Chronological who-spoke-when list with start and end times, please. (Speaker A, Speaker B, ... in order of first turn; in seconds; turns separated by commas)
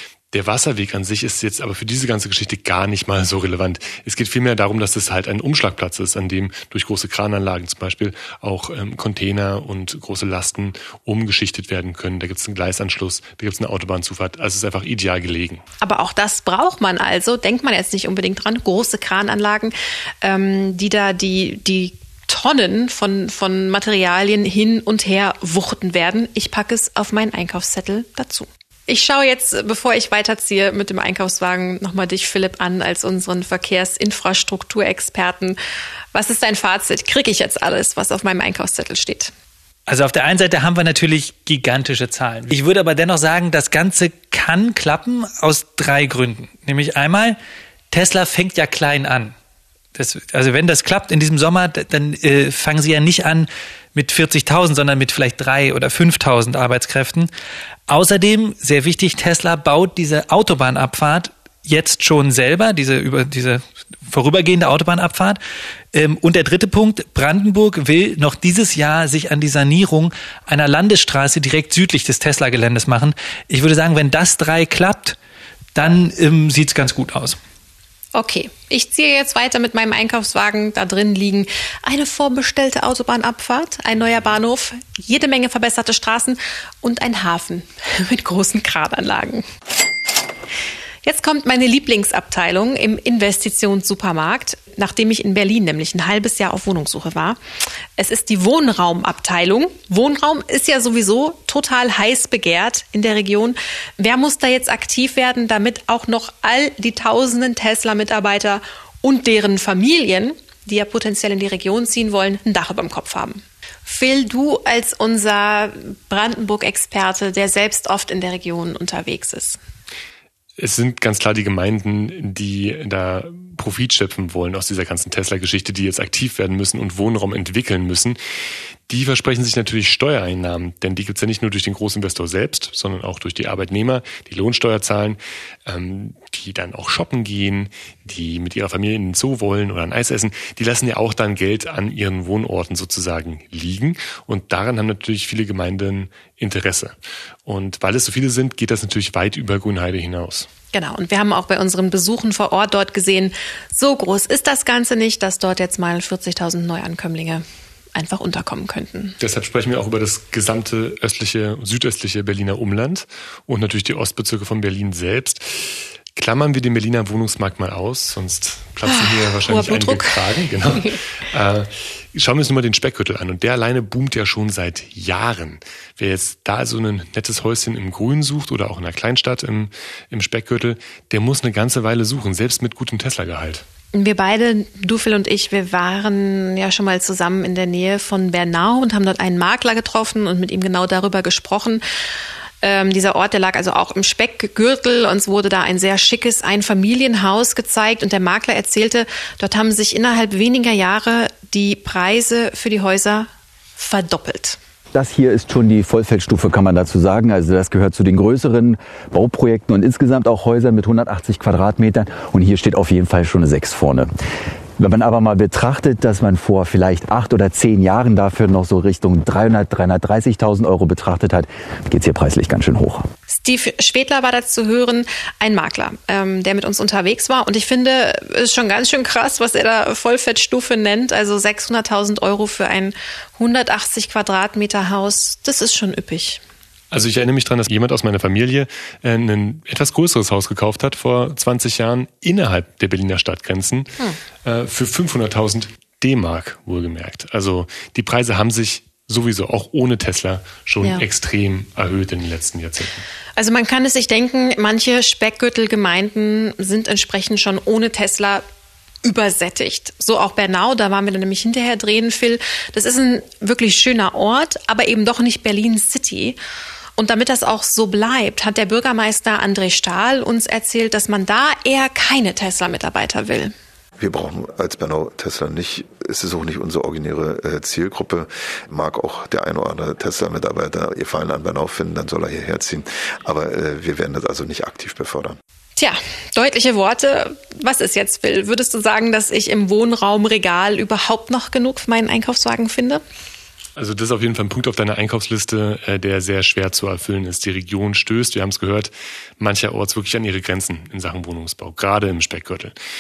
Speaker A: 0.3-15.6, Speaker B: 15.8-35.6, Speaker B: 36.1-39.3, Speaker C: 39.9-47.4, Speaker C: 47.9-49.4, Speaker C: 50.0-57.3, Speaker C: 57.9-65.4, Speaker C: 65.9-75.2, Speaker C: 75.8-77.4, Speaker B: 78.2-89.5, Speaker B: 91.0-97.4, Speaker B: 98.0-119.6, Speaker A: 120.6-128.2, Speaker A: 128.9-150.5, Speaker B: 150.7-157.4, Speaker B: 157.9-159.2, Speaker A: 159.2-183.6, Speaker B: 168.9-171.0, Speaker B: 183.9-191.8, Speaker B: 192.6-204.6, Speaker D: 204.9-214.1, Speaker D: 214.8-223.1, Speaker B: 223.3-236.4, Speaker A: 236.9-253.0, Speaker B: 253.4-258.4, Speaker B: 259.0-266.4, Speaker B: 267.0-273.5, Speaker E: 274.0-285.4, Speaker B: 285.8-293.0, Speaker A: 293.8-302.8